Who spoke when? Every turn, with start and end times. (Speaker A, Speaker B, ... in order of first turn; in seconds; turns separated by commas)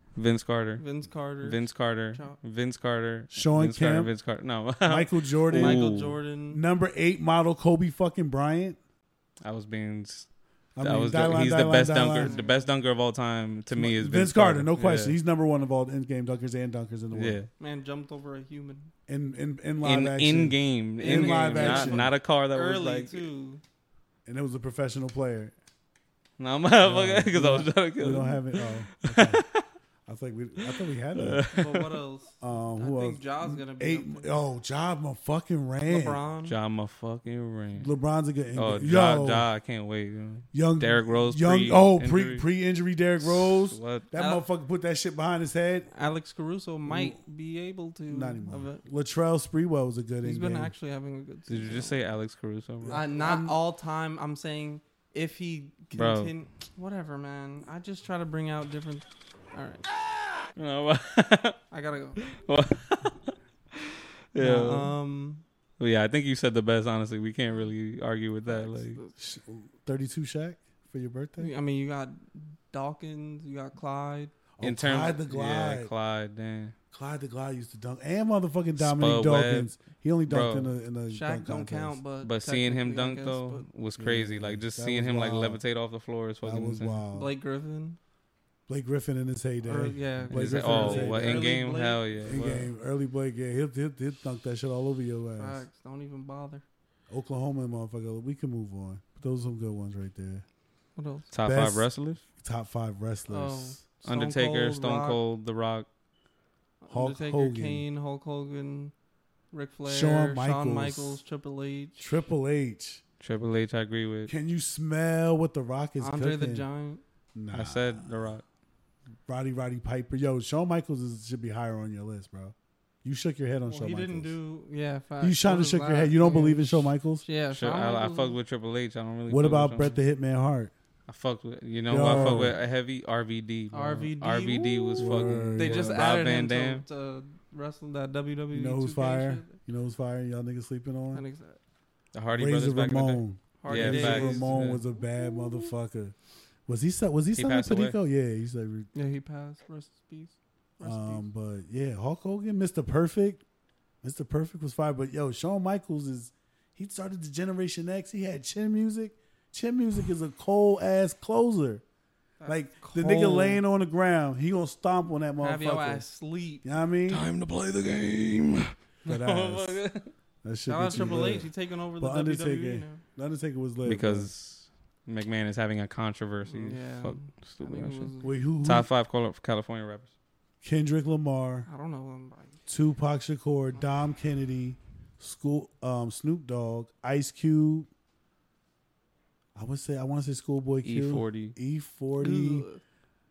Speaker A: 0.1-0.8, Speaker B: 0.8-2.4, Speaker A: 1.4-6.2, Speaker C: 3.3-4.1, Speaker C: 4.8-5.9, Speaker B: 5.5-6.6, Speaker C: 6.5-8.8, Speaker A: 9.4-10.3, Speaker C: 10.8-12.4, Speaker A: 10.8-15.2, Speaker B: 12.1-12.7, Speaker C: 13.7-17.4, Speaker A: 17.1-17.5, Speaker B: 17.6-18.9, Speaker C: 19.1-22.1, Speaker A: 19.8-23.3, Speaker B: 21.0-23.6, Speaker C: 24.2-25.5, Speaker A: 26.4-29.6, Speaker C: 26.8-29.4, Speaker C: 30.1-31.5, Speaker A: 30.6-31.9, Speaker B: 31.5-34.3, Speaker C: 32.4-36.2, Speaker B: 35.9-36.5, Speaker A: 36.5-37.9, Speaker C: 37.8-39.5, Speaker A: 38.5-42.5, Speaker C: 40.5-45.9, Speaker A: 43.2-44.1, Speaker B: 44.1-44.4, Speaker B: 45.9-48.8, Speaker C: 46.9-47.2, Speaker C: 48.1-50.7, Speaker B: 50.2-52.0, Speaker A: 51.5-53.1, Speaker C: 52.8-53.6, Speaker B: 52.9-59.8, Speaker A: 55.9-56.3, Speaker A: 60.5-61.6, Speaker B: 61.7-62.2, Speaker A: 62.2-64.9, Speaker B: 64.4-65.4, Speaker A: 65.8-69.0, Speaker B: 68.5-69.1, Speaker C: 69.2-71.5, Speaker B: 71.4-74.3, Speaker C: 74.6-75.9, Speaker A: 74.6-76.8, Speaker C: 76.9-82.0, Speaker A: 78.8-79.8, Speaker A: 80.3-80.7, Speaker B: 81.1-83.7, Speaker A: 82.2-87.0, Speaker C: 84.0-85.6, Speaker C: 86.4-87.3, Speaker B: 87.1-88.0, Speaker C: 88.7-91.5, Speaker B: 89.6-92.0, Speaker A: 90.3-92.7, Speaker C: 92.2-95.6, Speaker B: 95.4-96.6, Speaker C: 97.1-100.4, Speaker B: 101.0-101.3, Speaker A: 101.3-102.2, Speaker C: 101.4-103.8, Speaker B: 103.3-105.2, Speaker A: 104.0-105.9, Speaker B: 106.8-108.9, Speaker C: 106.9-107.8, Speaker B: 109.5-112.1, Speaker C: 109.8-111.2, Speaker C: 112.0-113.0, Speaker A: 113.2-114.3, Speaker C: 114.3-116.7, Speaker B: 116.0-117.0, Speaker C: 117.3-118.0, Speaker A: 117.5-118.4, Speaker C: 119.3-124.4, Speaker B: 123.7-128.4, Speaker C: 125.2-127.2, Speaker A: 127.5-130.0, Speaker C: 129.3-130.7, Speaker A: 131.1-136.8, Speaker C: 131.9-132.6, Speaker B: 132.0-132.5, Speaker B: 133.7-139.5, Speaker C: 135.0-136.1, Speaker C: 138.5-141.2, Speaker B: 141.1-141.6, Speaker A: 142.1-144.8, Speaker C: 142.3-146.2, Speaker B: 143.6-144.9, Speaker C: 146.7-148.9, Speaker A: 147.4-148.0, Speaker B: 148.9-151.3, Speaker C: 150.8-153.4, Speaker C: 154.0-161.8, Speaker B: 162.4-163.6, Speaker C: 162.5-166.1, Speaker B: 165.4-166.7, Speaker C: 166.6-167.2, Speaker A: 167.1-170.1, Speaker C: 169.1-169.8, Speaker C: 170.4-174.3, Speaker B: 170.7-173.0, Speaker A: 173.8-178.1, Speaker B: 176.5-178.4, Speaker C: 178.2-178.9, Speaker A: 178.6-180.1, Speaker C: 180.6-181.7, Speaker B: 181.7-182.6, Speaker C: 182.7-187.9, Speaker C: 189.6-192.7, Speaker A: 190.8-191.6, Speaker B: 192.2-192.8